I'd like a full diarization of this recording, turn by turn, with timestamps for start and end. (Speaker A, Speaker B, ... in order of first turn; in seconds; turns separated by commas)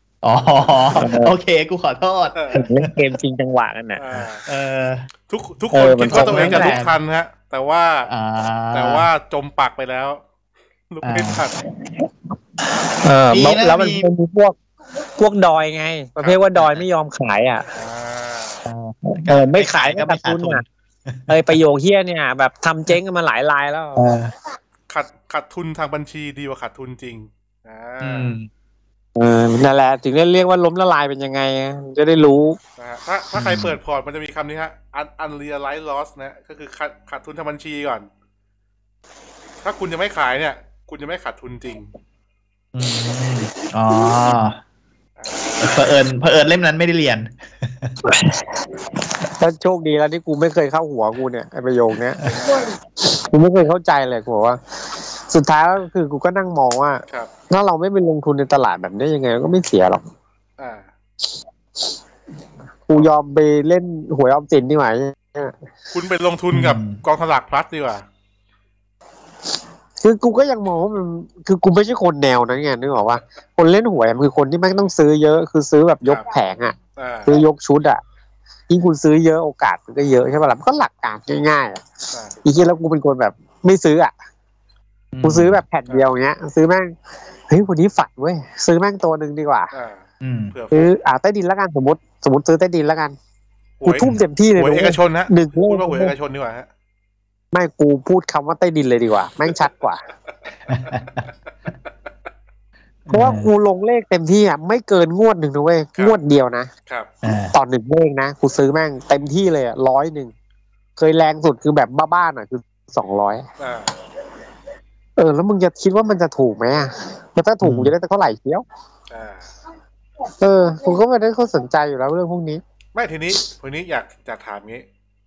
Speaker A: 0.2-2.9, Speaker B: 0.9-1.3, Speaker C: 2.3-2.6, Speaker B: 2.5-4.0, Speaker C: 4.0-4.4, Speaker A: 4.4-5.1, Speaker C: 5.3-8.1, Speaker B: 5.7-6.8, Speaker A: 6.1-7.0, Speaker A: 8.1-9.1, Speaker C: 8.7-10.2, Speaker C: 10.9-11.5, Speaker A: 11.0-11.4, Speaker B: 11.8-12.1, Speaker B: 12.6-14.6, Speaker A: 13.3-14.1, Speaker B: 15.2-17.7, Speaker A: 16.6-16.8, Speaker C: 17.7-18.6, Speaker A: 18.6-21.6, Speaker B: 19.1-20.6, Speaker B: 21.3-24.1, Speaker A: 24.0-24.3, Speaker C: 24.9-28.3, Speaker A: 28.0-28.5, Speaker B: 29.1-32.6, Speaker C: 32.8-38.1, Speaker A: 33.3-33.8, Speaker C: 39.6-41.9, Speaker A: 42.7-44.6, Speaker C: 45.2-45.9, Speaker A: 45.6-48.0, Speaker B: 48.0-60.0, Speaker C: 52.2-52.7, Speaker C: 60.6-60.9, Speaker B: 62.9-65.5, Speaker C: 65.9-68.0, Speaker A: 66.5-67.0, Speaker B: 70.0-78.0, Speaker C: 77.0-77.4, Speaker B: 78.7-81.8, Speaker C: 82.1-82.4, Speaker B: 82.4-84.1, Speaker A: 85.1-85.6, Speaker B: 85.2-86.9, Speaker B: 87.5-89.7, Speaker C: 89.7-90.9, Speaker A: 90.2-90.5, Speaker B: 90.7-93.2, Speaker C: 93.8-96.7, Speaker B: 93.8-96.1, Speaker B: 97.5-100.0, Speaker A: 100.7-101.2, Speaker A: 103.1-103.5, Speaker B: 103.1-106.7, Speaker A: 107.2-107.5, Speaker B: 107.5-110.3, Speaker B: 111.0-113.5, Speaker C: 113.6-113.9, Speaker B: 115.2-118.6, Speaker A: 117.6-117.9, Speaker C: 119.1-119.5, Speaker B: 120.4-122.6, Speaker C: 122.9-124.8